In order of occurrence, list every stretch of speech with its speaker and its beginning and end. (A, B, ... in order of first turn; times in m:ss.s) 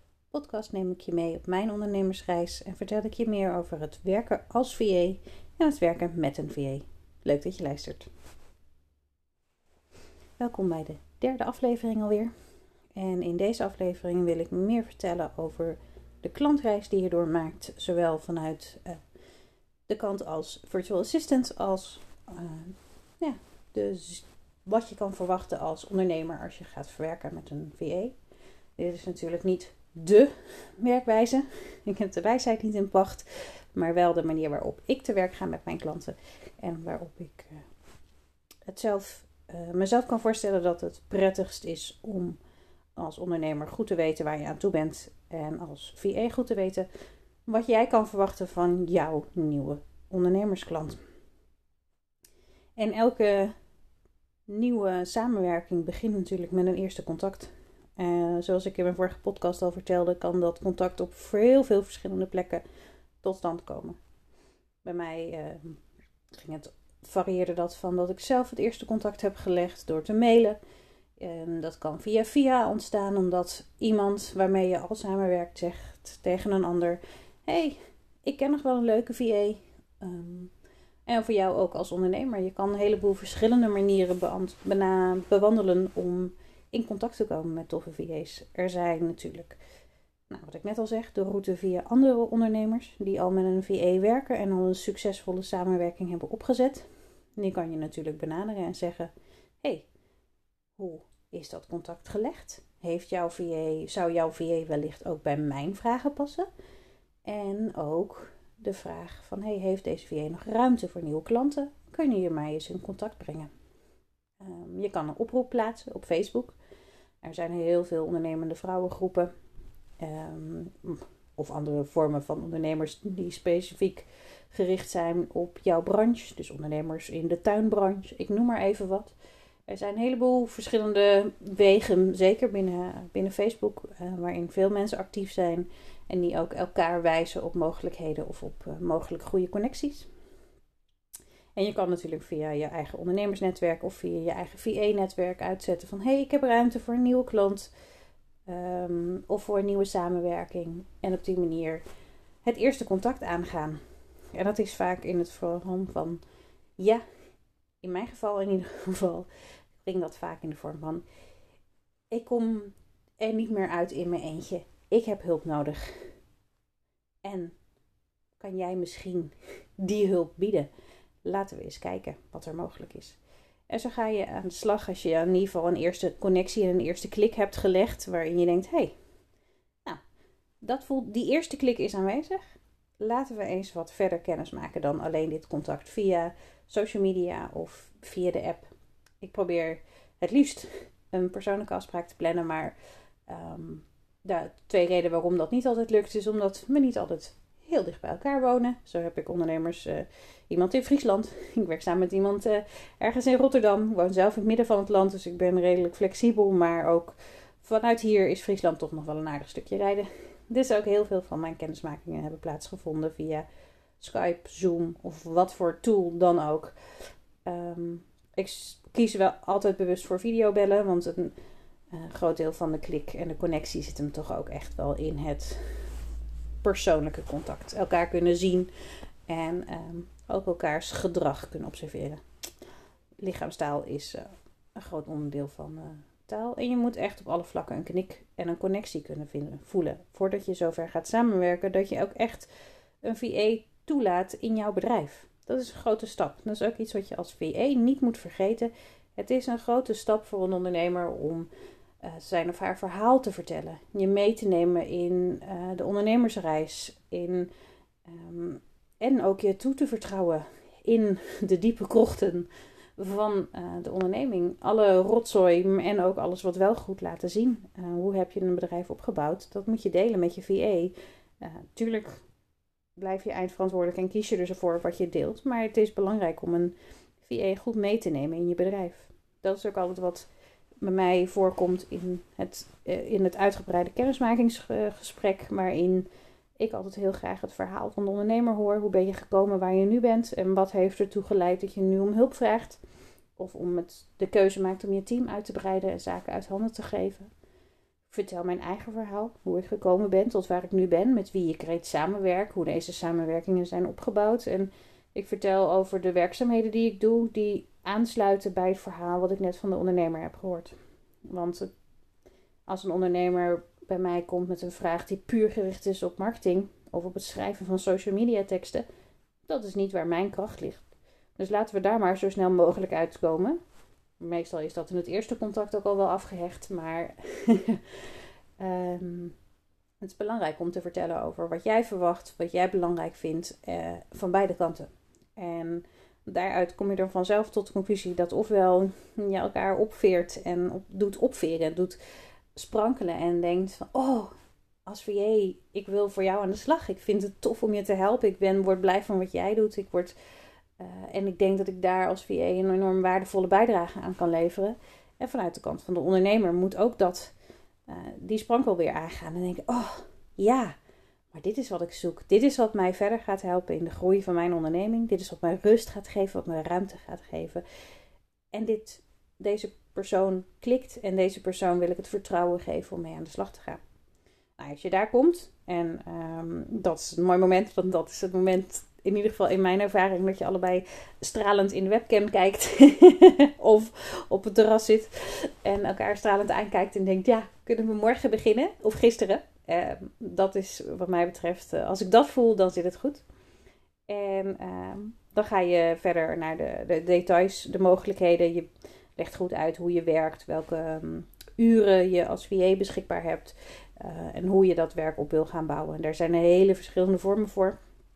0:00.3-0:08.1 A
0:10.4-0:12.3 A
0:13.0-0:19.0 A
0:19.9-0:28.2 A
0:28.8-0:37.6 A
0:38.7-0:42.4 A
0:43.0-0:46.9 A
0:47.5-0:51.0 A
0:52.8-0:53.5 A
0:54.5-1:02.6 A
1:03.2-1:04.0 A
1:04.8-1:05.8 A
1:06.3-1:10.6 A
1:11.2-1:20.5 A
1:21.1-1:29.6 A
1:30.3-1:39.9 A
1:40.8-1:46.5 A
1:47.2-1:53.5 A
1:54.4-1:56.6 A
1:57.2-1:59.3 A
2:00.0-2:09.1 A
2:09.7-2:20.1 A
2:21.6-2:27.7 A
2:28.5-2:31.8 A
2:32.4-2:33.8 A
2:34.3-2:36.2 A
2:36.8-2:37.0 A
2:37.8-2:39.3 A
2:39.8-2:41.0 A
2:42.1-2:46.1 A
2:47.2-2:47.6 A
2:48.4-2:50.7 A
2:51.2-2:58.9 A
3:00.6-3:02.4 A
3:03.0-3:12.8 A
3:13.3-3:33.4 A
3:34.0-3:36.7 A
3:37.4-3:41.3 A
3:41.9-3:45.9 A
3:46.6-3:48.7 A
3:49.3-3:52.2 A
3:53.2-4:02.5 A
4:03.0-4:11.5 A
4:12.0-4:17.5 A
4:18.0-4:32.2 A
4:33.0-4:40.3 A
4:40.8-4:46.1 A
4:46.6-4:52.8 A
4:53.4-4:57.3 A
4:58.1-5:10.8 A
5:11.3-5:11.7 A
5:12.7-5:18.8 A
5:19.5-5:23.6 A
5:24.2-5:29.4 A
5:30.0-5:42.0 A
5:42.6-5:44.3 A
5:44.8-5:50.1 A
5:50.8-5:57.3 A
5:57.9-6:00.7 A
6:01.3-6:07.6 A
6:08.5-6:13.8 A
6:14.6-6:33.2 A
6:34.1-6:47.8 A